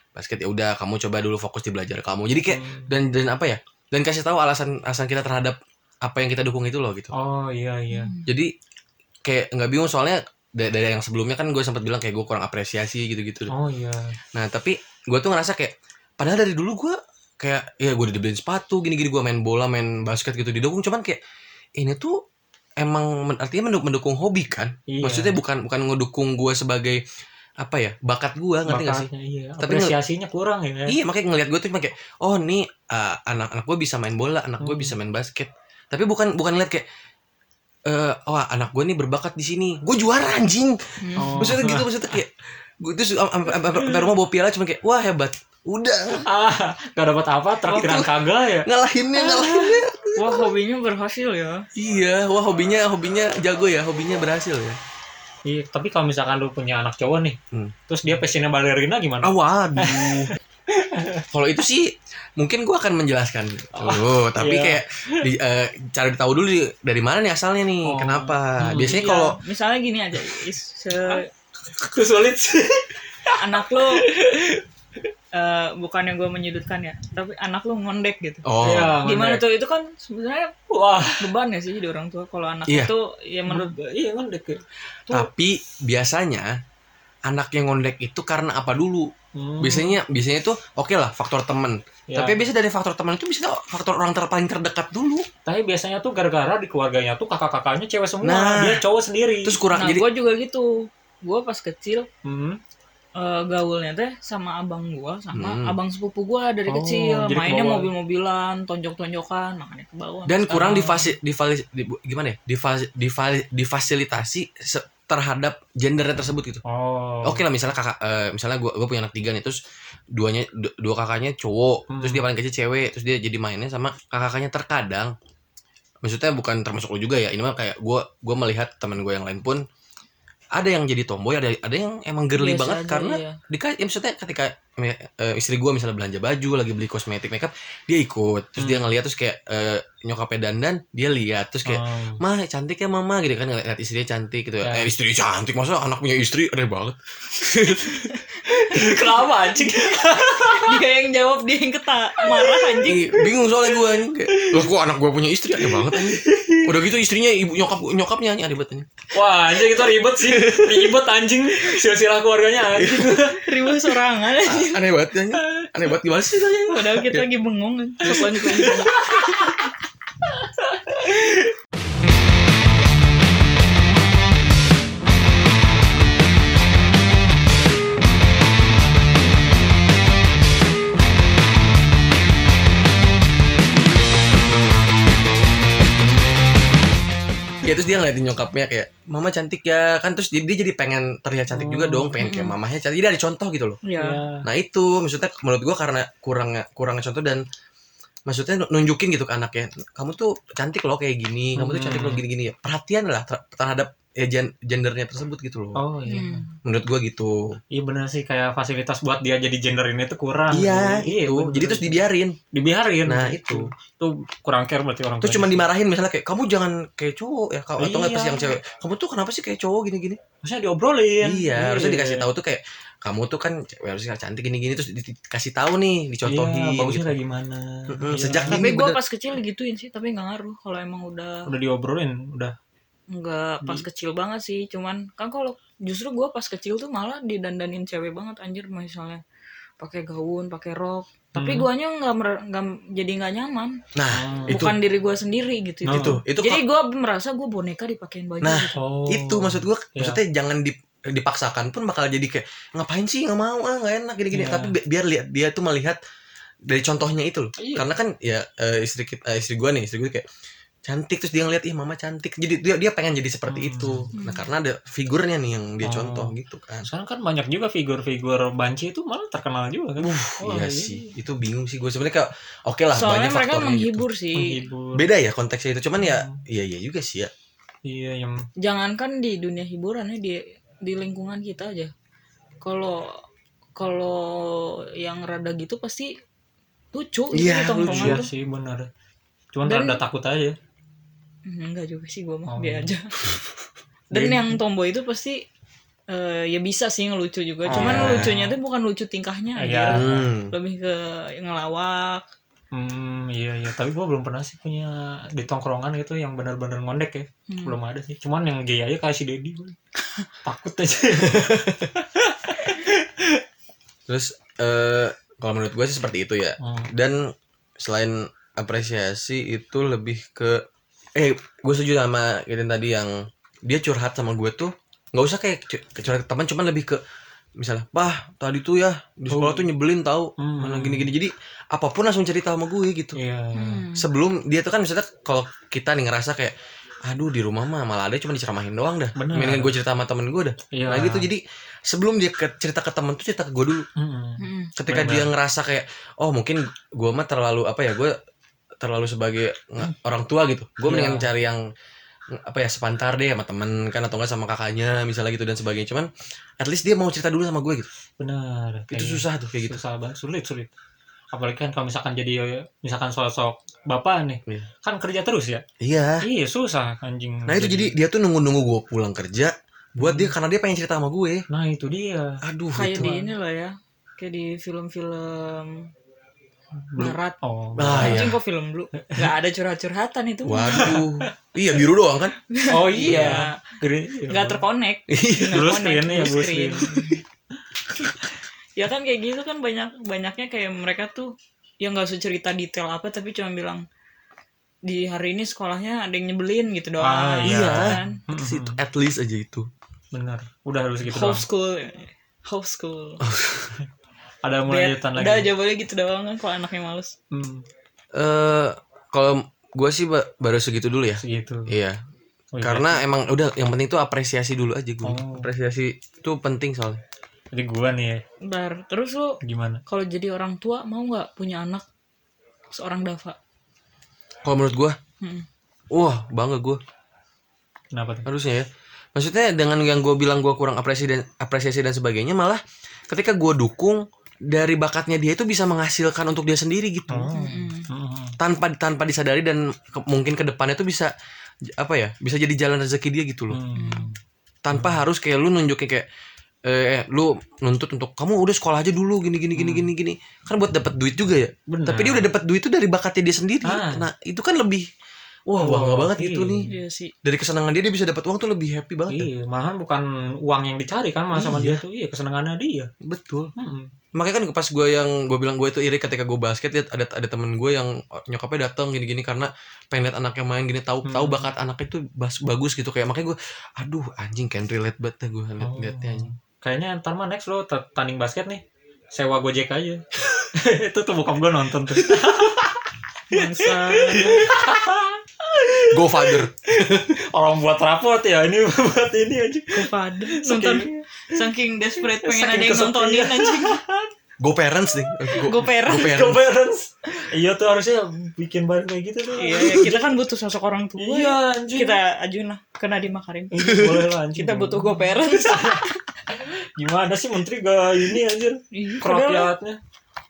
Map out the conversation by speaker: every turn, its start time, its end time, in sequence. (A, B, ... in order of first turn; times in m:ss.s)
0:00.1-0:07.1 A
0:02.5-0:02.9 B
0:07.1-0:08.1 B
0:07.9-0:08.3 C
0:08.2-0:08.5 A
0:09.2-0:13.5 A
0:13.5-0:14.2 B
0:14.3-0:21.2 A
0:21.8-0:22.2 A
0:22.8-0:27.0 A
0:24.9-0:25.4 B
0:27.6-0:29.1 A
0:28.7-0:31.0 B
0:29.6-0:30.0 A
0:30.9-0:36.8 A
0:34.6-0:34.9 B
0:37.8-0:46.2 A
0:41.0-0:41.6 C
0:41.2-0:42.1 B
0:46.2-0:48.7 B
0:47.6-0:50.5 A
0:49.1-0:51.6 C
0:51.7-0:54.8 A
0:55.4-1:01.2 B
0:59.2-1:00.3 A
1:01.3-1:09.4 A
1:03.7-1:05.3 B
1:07.8-1:09.0 B
1:08.8-1:11.2 C
1:11.0-1:14.6 B
1:13.4-1:14.1 C
1:15.3-1:18.4 C
1:18.4-1:19.0 A
1:18.6-1:19.4 B
1:19.0-1:23.7 C
1:20.7-1:21.3 B
1:22.7-1:22.9 A
1:23.5-1:24.6 B
1:25.1-1:26.6 A
1:27.2-1:35.2 A
1:29.4-1:30.0 B
1:32.1-1:32.4 B
1:35.4-1:39.6 B
1:38.2-1:38.8 A
1:39.4-1:40.0 A
1:39.7-1:42.1 C
1:42.2-1:42.6 B
1:43.2-1:51.0 C
1:45.3-1:45.7 A
1:46.7-1:47.9 B
1:50.2-1:56.6 A
1:56.6-1:57.4 B
1:57.2-1:59.6 A
2:00.1-2:05.1 A
2:01.9-2:02.2 B
2:06.0-2:09.6 A
2:10.5-2:28.1 A
2:12.4-2:13.4 C
2:18.6-2:18.9 B
2:21.6-2:22.2 B
2:24.6-2:24.9 B
2:28.4-2:30.8 B
2:30.5-2:33.1 C
2:32.2-2:34.7 B
2:32.8-2:38.9 A
2:35.5-2:36.8 B
2:39.1-2:43.4 B
2:40.1-2:41.0 A
2:42.7-2:43.2 A
2:43.3-2:44.8 C
2:44.4-2:47.3 A
2:46.7-2:49.5 C
2:48.0-2:48.9 A
2:48.0-2:49.6 B
3:07.6-3:13.8 A
3:11.5-3:12.1 B
3:12.2-3:12.6 C
3:13.8-3:14.2 C
3:14.0-3:14.5 B
3:14.4-3:17.4 A
3:18.3-3:25.8 A
3:21.6-3:22.2 B
3:25.8-3:26.4 B
3:26.1-3:26.5 C
3:26.6-3:27.6 A
3:27.7-3:35.6 B
3:30.5-3:32.4 A
3:33.0-3:33.7 A
3:35.2-3:40.2 A
3:37.8-3:38.6 B
3:40.4-3:42.3 B
3:41.2-3:47.2 A
3:46.2-3:48.7 B
3:47.9-3:49.0 A
3:48.5-3:51.5 C
3:51.4-3:52.5 B
3:53.1-3:59.2 C
3:59.8-4:03.8 C
4:01.4-4:01.7 B
4:03.9-4:04.8 A
4:04.1-4:04.7 B
4:04.5-4:08.8 C
4:05.8-4:06.2 B
4:05.9-4:06.6 A
4:08.4-4:16.0 A
4:08.7-4:10.2 B
4:14.3-4:14.7 B
4:16.6-4:20.2 A
4:17.6-4:17.9 B
4:20.8-4:26.9 A
4:23.5-4:24.1 B
4:24.2-4:24.5 C
4:25.8-4:31.1 B
4:30.0-4:34.0 A
4:32.9-4:34.6 C
4:34.3-4:35.0 B
4:34.9-4:37.3 A
4:36.0-4:36.4 B
4:37.8-4:38.5 B
4:38.6-4:41.9 C
4:42.6-4:43.2 C
4:43.8-4:46.1 C
4:46.9-4:48.3 C
4:47.3-4:48.2 A
4:47.8-4:48.9 B
4:49.5-4:50.6 B
4:49.6-4:50.0 C
4:51.4-4:53.2 C
4:52.5-4:52.9 B
4:54.1-4:55.4 C
4:54.1-4:54.4 A
4:56.1-5:02.2 C
4:57.7-4:58.6 B
4:57.7-4:58.3 A
4:59.6-5:00.3 B
4:59.9-5:00.6 A
5:02.7-5:09.8 B
5:07.5-5:07.8 C
5:10.4-5:13.4 B
5:11.2-5:11.9 A
5:14.1-5:20.6 A
5:16.6-5:16.9 B
5:21.1-5:27.0 A
5:27.6-5:33.2 A
5:29.3-5:29.7 B
5:30.4-5:31.1 B
5:33.2-5:33.8 B
5:33.5-5:34.0 C
5:33.9-5:36.5 A
5:37.0-5:43.8 A
5:39.2-5:39.7 B
5:40.7-5:41.3 B
5:44.0-5:45.3 B
5:44.4-5:44.7 C
5:44.8-5:48.2 A
5:48.8-5:51.6 A
5:50.8-5:51.3 B
5:52.3-5:56.1 A
5:56.6-5:57.9 A
5:58.2-6:00.7 B
5:58.9-5:59.8 A
6:01.3-6:05.6 B
6:05.8-6:06.2 A
6:06.2-6:07.9 B
6:07.5-6:11.4 A
6:10.0-6:10.3 B
6:11.5-6:12.4 B
6:12.4-6:13.1 A
6:12.7-6:15.9 C
6:12.9-6:13.3 B
6:16.9-6:18.3 B
6:17.0-6:17.4 C
6:17.8-6:18.4 A
6:17.9-6:21.0 C
6:19.0-6:19.3 B
6:20.4-6:22.4 A
6:20.7-6:21.3 B
6:22.5-6:27.2 C
6:22.7-6:24.6 B
6:23.1-6:23.4 A
6:25.1-6:25.7 A
6:25.5-6:27.2 B
6:28.8-6:33.8 C
6:34.8-6:38.2 C
6:37.0-6:38.8 B
6:37.4-6:39.7 A
6:40.1-6:41.4 B
6:41.0-6:43.2 C
6:43.2-6:43.8 A
6:44.4-6:45.5 B
6:44.7-6:47.1 C
6:47.3-6:47.6 B
6:48.1-6:52.0 A
6:51.2-6:51.7 B
6:52.5-6:53.0 B
6:52.6-6:57.0 A
6:55.0-6:55.5 B
6:57.5-6:58.2 B
6:58.4-7:01.8 C
6:59.4-6:59.8 B
7:02.7-7:03.4 C
7:04.4-7:05.0 A
7:05.2-7:05.4 C
7:05.9-7:06.8 A
7:07.9-7:08.3 B
7:08.2-7:17.3 A
7:17.1-7:18.4 B
7:17.3-7:17.9 C
7:18.4-7:21.1 A
7:21.7-7:23.6 A
7:23.5-7:24.2 B
7:23.7-7:24.1 C
7:24.6-7:26.0 A
7:24.7-7:25.0 B
7:26.6-7:34.9 A
7:29.5-7:29.9 B
7:31.7-7:32.3 B
7:33.6-7:34.1 B
7:35.5-7:36.7 A
7:35.6-7:36.7 B
7:36.7-7:37.1 C
7:37.2-7:39.3 A
7:39.1-7:42.9 B
7:41.3-7:41.8 A
7:43.0-7:43.5 A
7:43.6-7:43.9 B
7:44.1-7:56.3 A
7:51.0-7:51.5 B
7:55.6-8:11.4 B
8:03.3-8:04.5 C
8:05.9-8:07.2 A
8:09.7-8:13.8 C
8:12.0-8:14.1 B
8:14.4-8:16.4 A
8:15.3-8:16.3 C
8:15.9-8:20.1 B
8:19.4-8:26.0 C
8:21.0-8:22.0 B
8:23.5-8:29.8 B
8:23.7-8:24.0 A
8:28.7-8:29.5 C